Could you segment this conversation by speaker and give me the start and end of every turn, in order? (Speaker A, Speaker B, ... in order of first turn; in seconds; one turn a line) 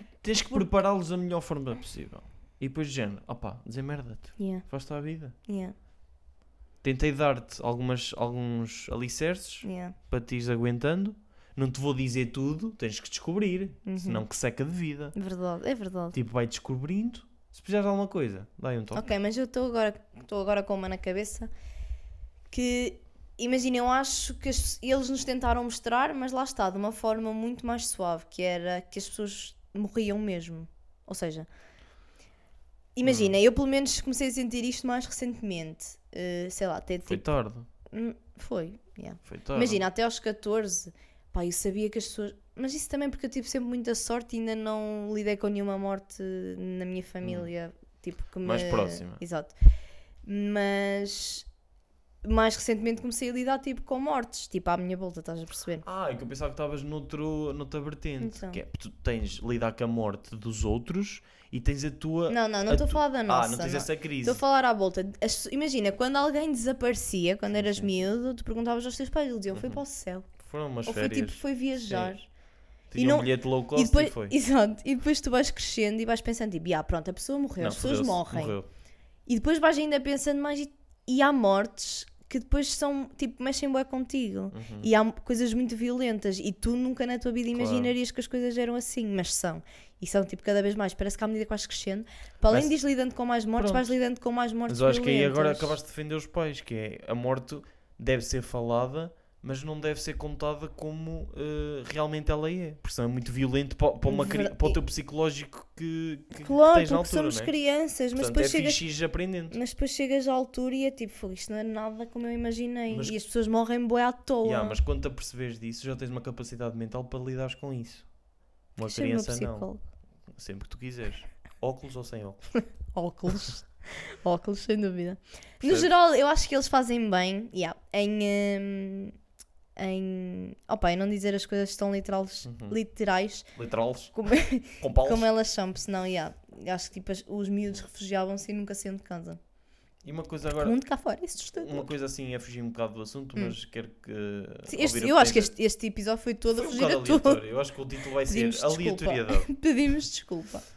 Speaker A: 0.2-5.3
Speaker B: 4.4-4.7
Speaker B: 5.5-5.8
Speaker A: 6.8-15.2
Speaker B: 9.6-10.0
Speaker B: 13.9-14.2
Speaker B: 15.2-16.2
Speaker A: 16.1-19.1
Speaker B: 18.9-21.5
Speaker B: 22.5-31.5
Speaker B: 33.0-37.3
Speaker A: 33.0-33.4
Speaker A: 37.1-37.7
Speaker B: 37.9-49.5
Speaker A: 39.3-39.9
Speaker A: 47.2-47.5
Speaker A: 48.4-49.2
Speaker B: 50.2-51.5
Speaker B: 52.2-55.9
Speaker A: 55.8-64.4
Speaker B: 58.2-58.6
Speaker B: 62.3-70.3
Speaker A: 67.5-68.0
Speaker A: 69.5-69.8
Speaker A: 70.4-72.2
Speaker B: 70.8-72.3
Speaker A: 72.9-74.3
Speaker B: 73.0-78.6
Speaker A: 77.6-78.7
Speaker B: 79.3-95.8
Speaker A: 84.5-84.9
Speaker A: 87.5-87.9
Speaker A: 92.5-92.7
Speaker A: 93.6-94.0
Speaker A: 94.7-107.5
Speaker B: 104.1-104.8
Speaker B: 106.4-108.8
Speaker A: 108.1-109.6
Speaker B: 109.5-114.8
Speaker A: 112.9-113.2
Speaker A: 114.4-118.1
Speaker A: 118.8-119.7
Speaker B: 118.8-119.8
Speaker A: 120.3-122.5
Speaker B: 122.9-129.2
Speaker A: 125.6-125.9
Speaker B: 129.8-133.5
Speaker A: 132.4-132.8
Speaker A: 133.5-134.1
Speaker B: 134.1-139.4
Speaker A: 134.8-135.3
Speaker A: 140.0-140.8
Speaker B: 140.6-141.9
Speaker A: 141.6-145.5
Speaker B: 144.7-147.4
Speaker A: 146.5-149.5
Speaker B: 148.3-150.7